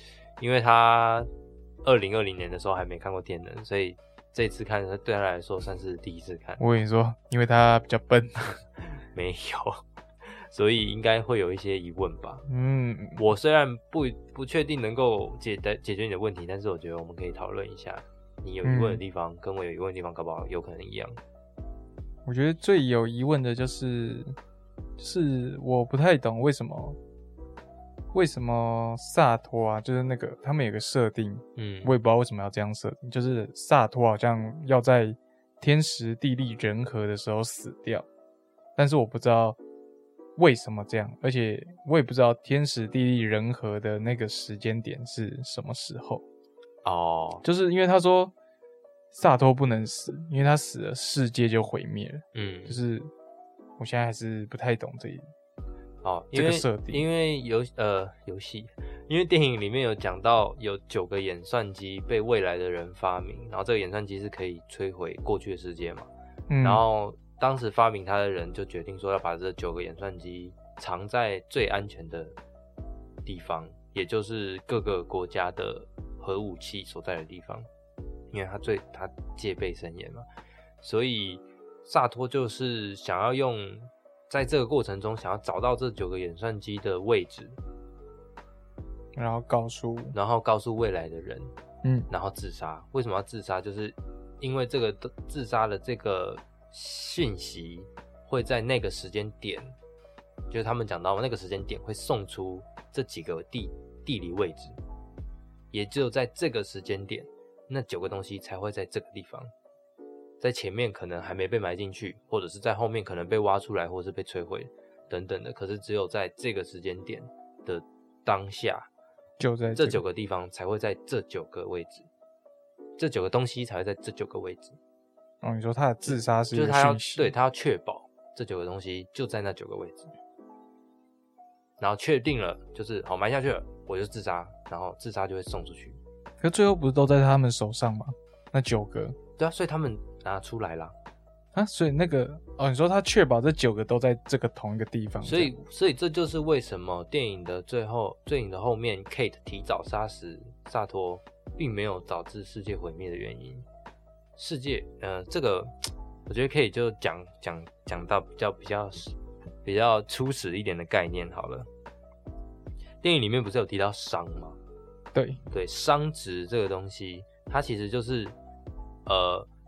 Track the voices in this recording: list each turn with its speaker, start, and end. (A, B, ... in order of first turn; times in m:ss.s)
0:00.4-0:01.3 A
0:01.8-0:06.6 A
0:06.6-0:08.6 B
0:09.1-0:12.4 A
0:12.5-0:13.2 B
0:13.2-0:21.2 A
0:18.6-0:19.0 B
0:22.2-0:24.4 B
0:25.0-0:27.0 B
0:28.1-0:38.0 B
0:31.6-0:31.9 A
0:38.8-0:39.6 B
0:40.4-0:46.2 B
0:46.8-0:47.4 A
0:47.4-0:48.3 B
0:49.1-0:53.1 B
0:52.3-0:52.8 A
0:53.8-0:55.2 B
0:56.0-1:06.1 A
0:56.3-0:57.0 B
1:06.5-1:06.8 B
1:06.6-1:12.4 A
1:13.2-1:17.7 A
1:18.3-1:20.2 A
1:20.8-1:27.6 A
1:29.2-1:30.1 B
1:30.1-1:31.5 A
1:31.8-1:32.1 B
1:32.1-1:39.7 A
1:40.5-1:44.8 A
1:45.7-1:49.5 A
1:50.4-1:58.9 A
1:59.4-2:00.0 B
1:59.7-2:02.1 A
2:03.0-2:04.8 A
2:05.4-2:07.3 B
2:06.1-2:10.1 A
2:11.8-2:16.0 A
2:16.4-2:19.2 B
2:19.4-2:20.9 A
2:21.5-2:25.5 B
2:25.2-2:33.6 A
2:34.4-2:35.7 A
2:36.3-2:41.7 A
2:43.0-2:44.6 A
2:45.1-2:45.4 B
2:45.5-2:48.3 A
2:49.0-2:49.5 A